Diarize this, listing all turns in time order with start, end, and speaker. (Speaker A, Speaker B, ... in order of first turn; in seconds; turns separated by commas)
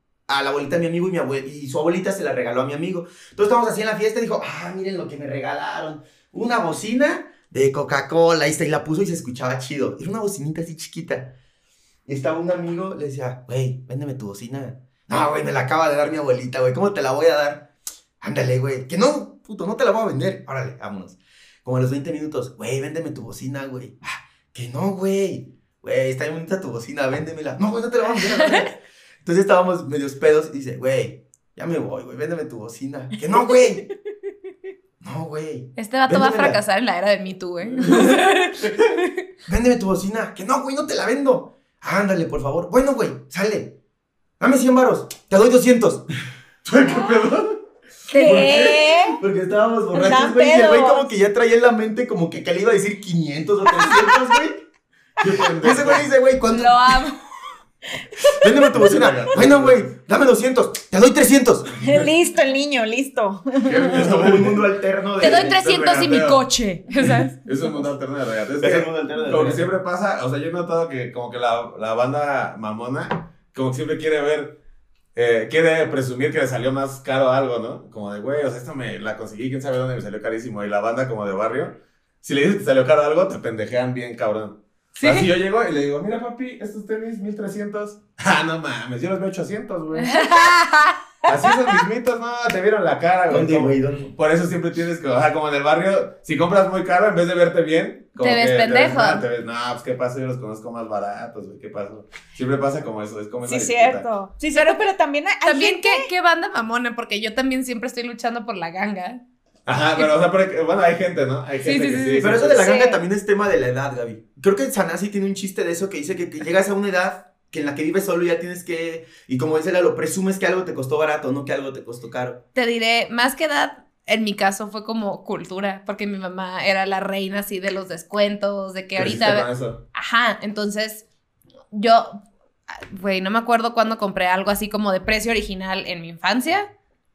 Speaker A: 0.3-11.3, Speaker A: 12.1-17.7, Speaker A: 18.2-33.9, Speaker B: 28.2-28.7, Speaker A: 35.0-36.6, Speaker B: 35.8-39.1, Speaker C: 38.0-38.8, Speaker A: 39.5-43.8, Speaker A: 44.4-46.0, Speaker C: 46.6-47.6, Speaker B: 48.1-48.9, Speaker D: 48.1-49.2, Speaker A: 48.2-54.6, Speaker D: 49.9-51.1, Speaker D: 53.8-54.2, Speaker C: 55.2-56.1, Speaker A: 55.5-57.0, Speaker B: 56.5-57.2, Speaker A: 58.3-61.9, Speaker C: 58.7-59.9, Speaker D: 61.8-64.0, Speaker C: 63.6-64.7, Speaker A: 63.8-65.6, Speaker B: 65.2-67.4, Speaker C: 65.2-66.4, Speaker C: 67.0-74.6, Speaker A: 68.6-69.7, Speaker C: 75.1-90.2, Speaker B: 85.0-85.3, Speaker B: 90.0-91.0, Speaker C: 91.2-104.1, Speaker A: 93.3-94.1, Speaker B: 98.2-99.2, Speaker D: 103.5-106.1, Speaker B: 104.5-104.9, Speaker B: 105.4-109.2, Speaker C: 109.7-112.6, Speaker B: 111.6-112.4, Speaker A: 112.2-122.4, Speaker D: 112.6-113.0, Speaker B: 122.5-131.1, Speaker C: 129.0-129.8, Speaker B: 131.7-136.7